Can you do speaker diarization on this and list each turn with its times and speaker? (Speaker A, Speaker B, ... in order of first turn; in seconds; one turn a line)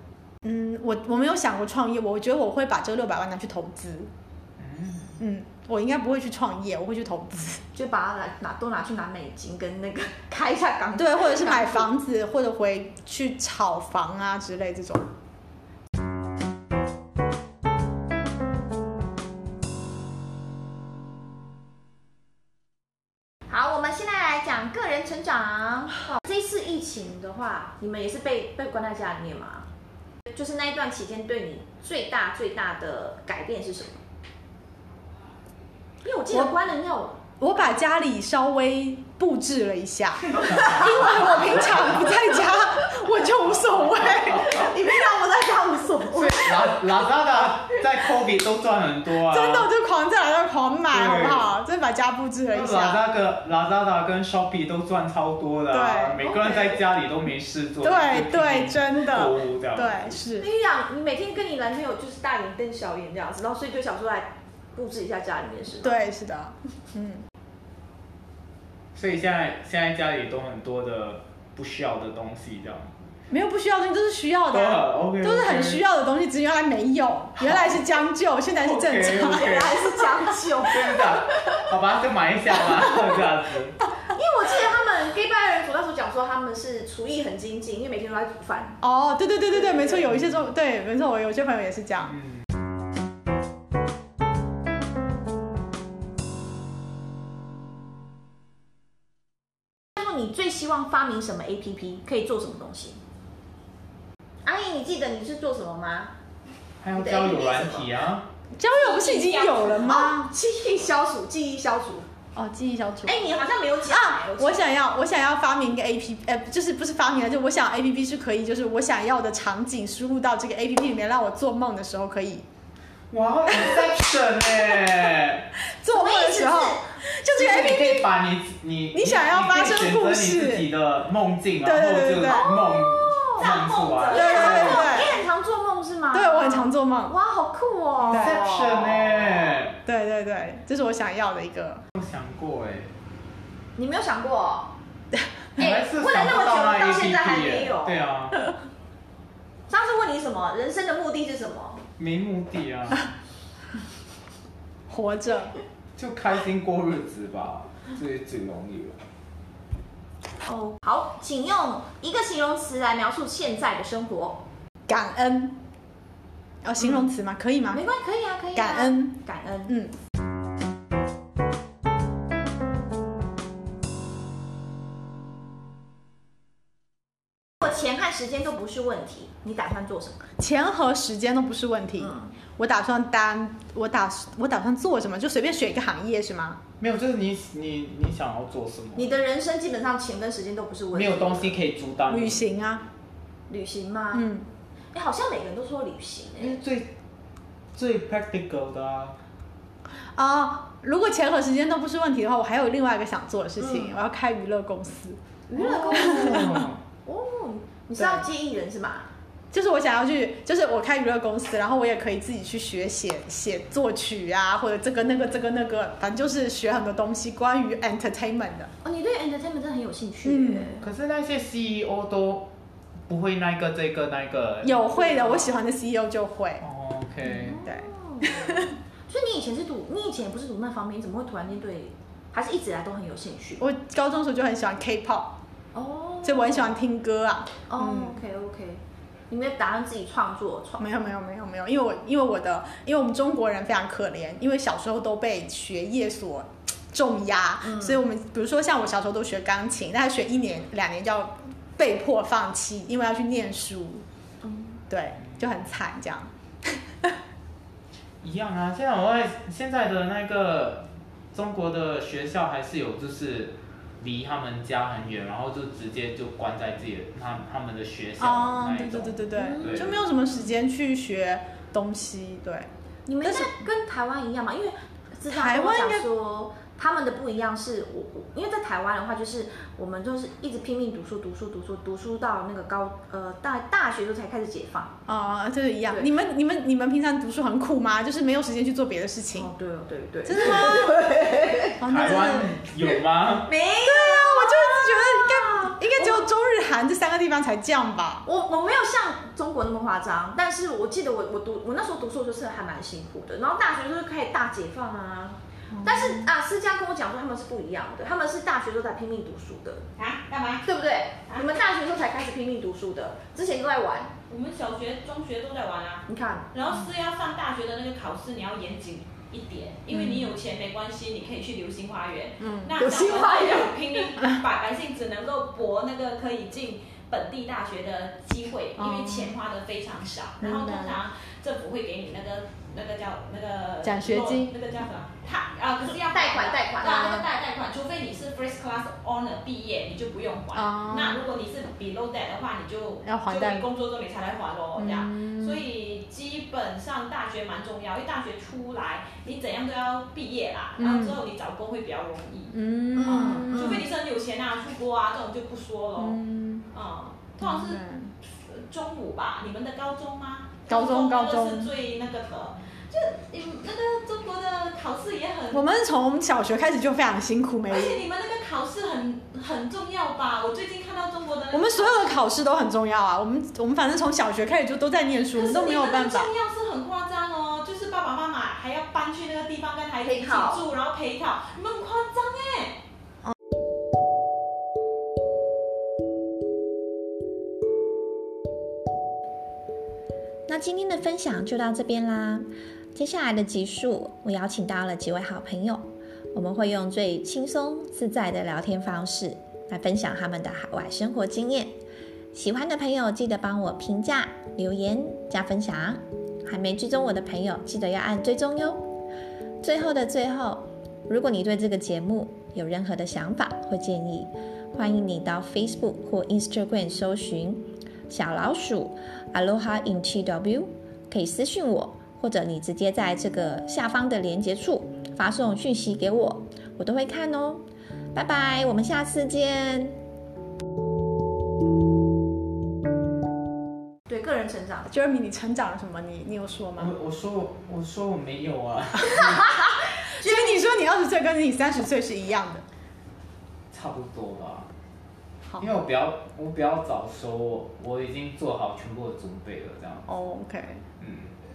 Speaker A: 0.4-4.1
Speaker B: 4.6-5.2
Speaker A: 5.2-7.6
Speaker C: 7.7-11.9
Speaker A: 10.9-15.1
Speaker C: 23.5-29.7
Speaker C: 30.3-34.0
Speaker C: 36.0-37.2
Speaker A: 37.4-44.7
Speaker C: 40.5-42.5
Speaker B: 43.9-44.6
Speaker C: 44.4-46.8
Speaker B: 46.1-49.7
Speaker A: 49.2-53.0
Speaker B: 50.9-51.5
Speaker B: 52.5-60.2
Speaker A: 55.7-56.3
Speaker C: 56.2-56.8
Speaker A: 57.8-60.5
Speaker C: 60.4-66.0
Speaker A: 65.8-67.2
Speaker B: 68.9-72.9
Speaker A: 73.3-79.5
Speaker B: 74.5-75.8
Speaker B: 77.4-77.8
Speaker B: 78.5-79.9
Speaker C: 79.0-81.7
Speaker B: 80.5-83.8
Speaker C: 84.1-88.8
Speaker A: 88.8-92.2
Speaker C: 89.5-90.1
Speaker C: 99.9-103.0
Speaker C: 104.4-106.1
Speaker B: 106.8-108.3
Speaker C: 106.9-107.9
Speaker A: 108.6-110.3
Speaker D: 108.6-110.0
Speaker C: 109.7-112.1
Speaker A: 112.3-113.2
Speaker C: 113.0-114.7
Speaker A: 113.8-122.4
Speaker B: 123.1-125.5
Speaker A: 123.5-123.9
Speaker A: 125.7-128.1
Speaker C: 125.9-126.8
Speaker B: 127.3-134.9
Speaker A: 128.9-130.7
Speaker A: 131.6-132.5
Speaker C: 132.2-139.7
Speaker D: 133.4-135.1
Speaker A: 134.1-135.2
Speaker A: 136.1-137.2
Speaker A: 138.1-138.4
Speaker B: 138.1-139.8
Speaker A: 139.8-141.8
Speaker B: 141.9-142.9
Speaker C: 143.8-144.7
Speaker C: 145.6-148.0
Speaker B: 145.6-148.4
Speaker C: 149.7-151.8
Speaker B: 152.0-153.1
Speaker A: 154.9-155.5
Speaker B: 155.9-159.0
Speaker C: 160.4-164.4
Speaker A: 164.9-165.6
Speaker A: 166.6-167.8
Speaker C: 167.7-169.7
Speaker A: 168.5-169.9
Speaker C: 177.6-180.2
Speaker A: 180.4-186.6
Speaker C: 182.0-182.3
Speaker B: 186.8-189.2
Speaker C: 188.9-191.6
Speaker B: 190.9-192.5
Speaker A: 192.1-192.8
Speaker C: 193.5-194.3
Speaker A: 194.1-194.5
Speaker C: 194.9-196.6
Speaker B: 196.4-196.9
Speaker B: 197.7-199.2
Speaker A: 200.2-205.2
Speaker C: 203.6-203.9
Speaker C: 205.5-209.1
Speaker B: 205.5-206.8
Speaker A: 205.9-206.7
Speaker A: 207.9-208.2
Speaker A: 209.5-218.7
Speaker C: 218.8-220.9
Speaker A: 220.2-220.7
Speaker B: 220.8-222.5
Speaker B: 223.1-225.6
Speaker A: 224.6-226.6
Speaker B: 226.6-227.6
Speaker C: 227.2-233.6
Speaker A: 227.6-228.7
Speaker A: 233.6-235.3
Speaker C: 235.7-236.8
Speaker A: 236.2-238.2
Speaker C: 237.7-240.8
Speaker A: 240.8-254.0
Speaker C: 247.6-248.0
Speaker C: 254.4-254.8
Speaker A: 254.9-257.1
Speaker B: 258.2-270.0
Speaker A: 268.2-272.7
Speaker C: 269.4-269.8
Speaker C: 273.1-285.0
Speaker A: 273.2-273.5
Speaker A: 275.3-276.1
Speaker A: 285.1-289.5
Speaker C: 289.3-291.8
Speaker A: 290.2-291.0
Speaker A: 291.8-292.6
Speaker B: 291.9-293.5
Speaker C: 293.4-296.2
Speaker A: 293.8-298.2
Speaker C: 298.2-309.8
Speaker A: 305.7-306.2
Speaker D: 310.0-310.6
Speaker C: 310.6-314.1
Speaker D: 311.3-311.6
Speaker D: 314.3-352.5
Speaker C: 316.1-316.5
Speaker A: 319.9-320.3
Speaker A: 322.4-322.8
Speaker C: 322.8-324.0
Speaker A: 328.8-329.4
Speaker A: 330.4-331.0
Speaker A: 333.8-334.5
Speaker C: 336.1-337.3
Speaker A: 340.5-341.2
Speaker A: 343.0-343.7
Speaker A: 344.8-345.6
Speaker A: 350.8-351.2
Speaker A: 352.5-353.9
Speaker C: 352.9-353.9
Speaker D: 353.1-356.2
Speaker A: 356.0-356.6
Speaker D: 356.7-357.8
Speaker A: 357.4-358.1
Speaker D: 358.5-365.6
Speaker A: 360.7-361.7
Speaker A: 365.5-368.0
Speaker D: 367.7-372.2
Speaker A: 371.5-376.3
Speaker D: 375.3-382.8
Speaker C: 380.0-380.6
Speaker E: 390.5-401.8
Speaker E: 402.3-408.8
Speaker E: 409.6-430.0
Speaker C: 434.1-434.9
Speaker A: 434.9-436.9
Speaker B: 436.8-439.5
Speaker C: 439.1-440.8
Speaker A: 440.1-442.6
Speaker B: 443.7-444.7
Speaker B: 445.6-450.1
Speaker A: 450.1-450.8
Speaker B: 451.0-451.3